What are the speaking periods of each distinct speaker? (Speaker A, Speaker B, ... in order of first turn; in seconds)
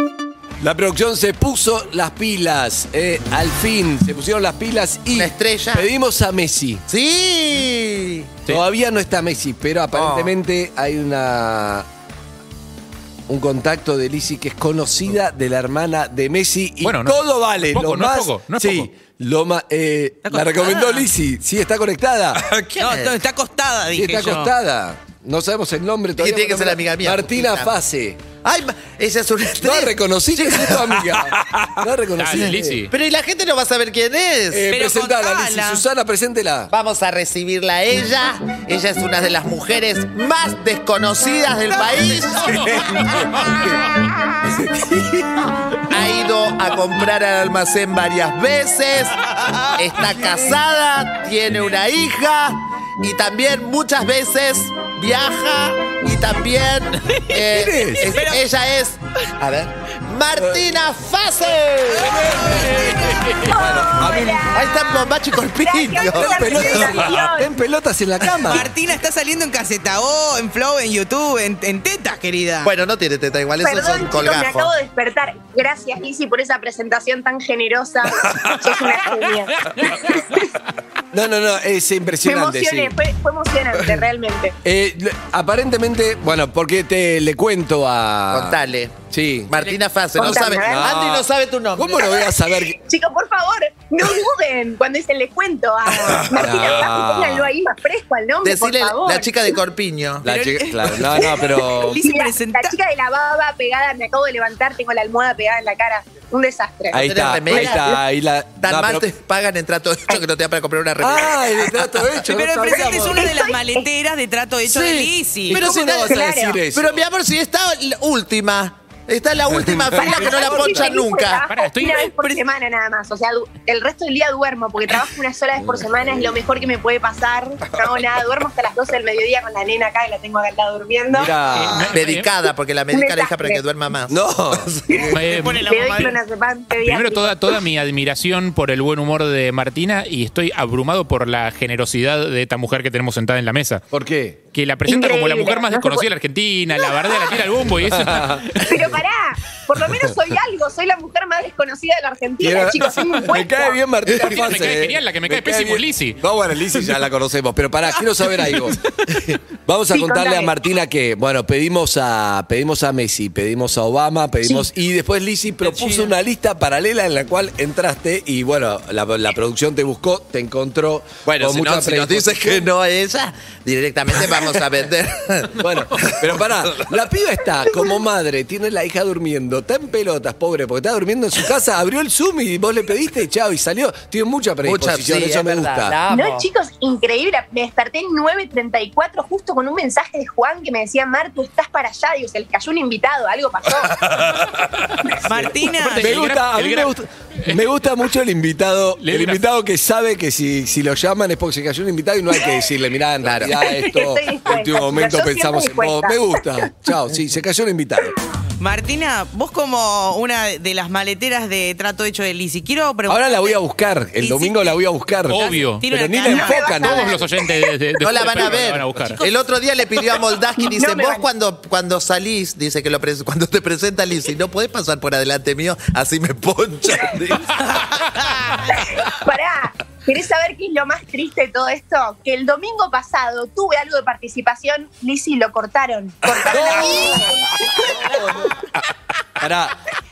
Speaker A: 0.6-6.8, 8.5-11.9, 13.3-22.4, 23.9-28.2, 29.6-32.8, 34.5-36.7, 42.5-43.8, 44.4-45.5, 57.5-58.2, 60.3-60.6, 63.4-64.5, 66.1-68.7, 81.1-83.0, 84.6-88.6, 89.1-89.5, 90.2-92.8, 96.1-97.5, 100.2-102.0, 106.9-109.1, 111.0-113.3, 114.7-117.0, 119.5-120.1, 125.6-126.3, 131.1-131.8, 134.1-135.2, 143.9-144.4, 147.8-149.0, 149.8-150.2, 152.4-158.8, 159.7-172.7, 175.6-186.0, 196.0-208.1, 213.1-217.2, 227.2-227.5, 236.4-238.6, 239.4-239.8
Speaker B: 5.1-5.9, 6.9-8.3, 9.9-10.3, 22.4-23.1, 26.2-27.7, 28.4-31.2, 32.3-34.7, 36.7-42.7, 45.9-62.9, 64.5-67.0, 72.6-74.7, 88.3-88.9, 89.5-92.3, 98.4-100.2, 107.0-107.9, 108.6-112.3, 115.5-116.2, 116.7-121.4, 131.9-135.1, 171.3-175.6, 184.7-186.4, 203.2-203.6, 218.0-227.4
Speaker C: 16.8-18.9, 32.2-32.9, 42.1-44.0, 63.2-63.5, 121.5-122.0, 131.5-132.3, 135.1-135.7, 136.8-143.8, 144.5-148.4, 154.2-156.2, 195.8-197.6, 199.0-199.4, 215.3-215.9, 216.8-219.2
Speaker D: 20.2-21.1, 22.8-24.5, 34.7-35.8, 57.0-57.4, 58.0-58.5, 62.0-63.3, 68.4-72.7, 100.2-102.8, 112.3-116.0, 120.1-120.8, 122.1-122.4, 131.6-131.9, 135.2-136.2, 165.6-166.1, 195.2-196.2, 208.6-213.6, 214.2-214.8, 215.4-216.9, 218.8-220.0, 227.8-228.5
Speaker E: 63.2-67.5, 73.6-80.3, 82.2-84.5, 90.2-90.9, 92.8-99.3, 101.8-107.9, 113.0-113.9, 116.0-116.6, 119.9-131.4, 132.9-133.6, 135.7-137.5, 144.9-146.1, 146.7-147.4, 148.6-153.8, 159.9-160.5, 186.1-194.0, 203.8-206.2, 216.3-217.2, 220.6-221.3, 228.5-238.3